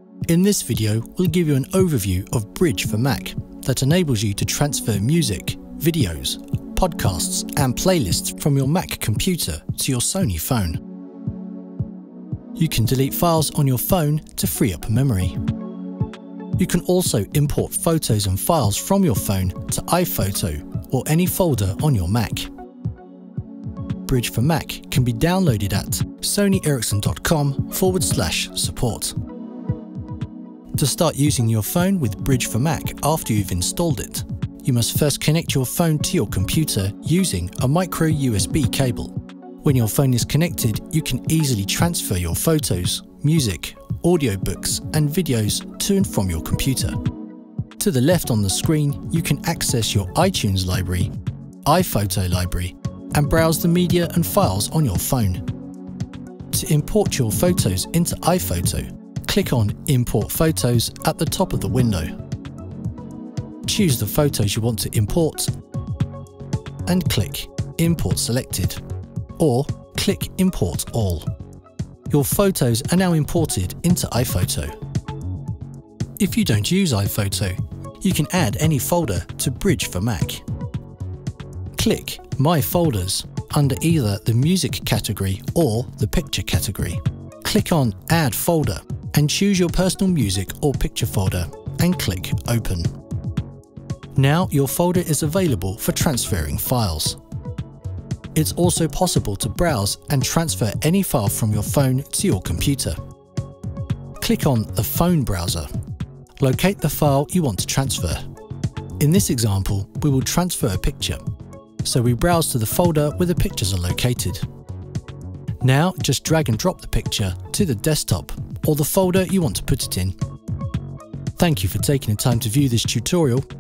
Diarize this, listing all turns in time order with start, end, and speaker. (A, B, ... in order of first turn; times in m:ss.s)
0:00.3-0:10.8 A
0:12.6-0:15.4 A
0:16.6-0:22.5 A
0:24.0-0:29.2 A
0:30.7-0:47.0 A
0:47.8-0:51.1 A
0:51.6-0:55.5 A
0:56.5-1:02.2 A
1:03.6-1:05.5 A
1:06.9-1:08.8 A
1:09.4-1:11.3 A
1:12.1-1:14.8 A
1:16.2-1:20.4 A
1:21.8-1:32.9 A
1:34.2-1:37.2 A
1:38.4-1:43.0 A
1:44.2-1:45.7 A
1:46.4-1:48.2 A
1:49.0-1:51.2 A
1:51.8-1:54.5 A
1:55.6-2:00.2 A
2:01.4-2:03.5 A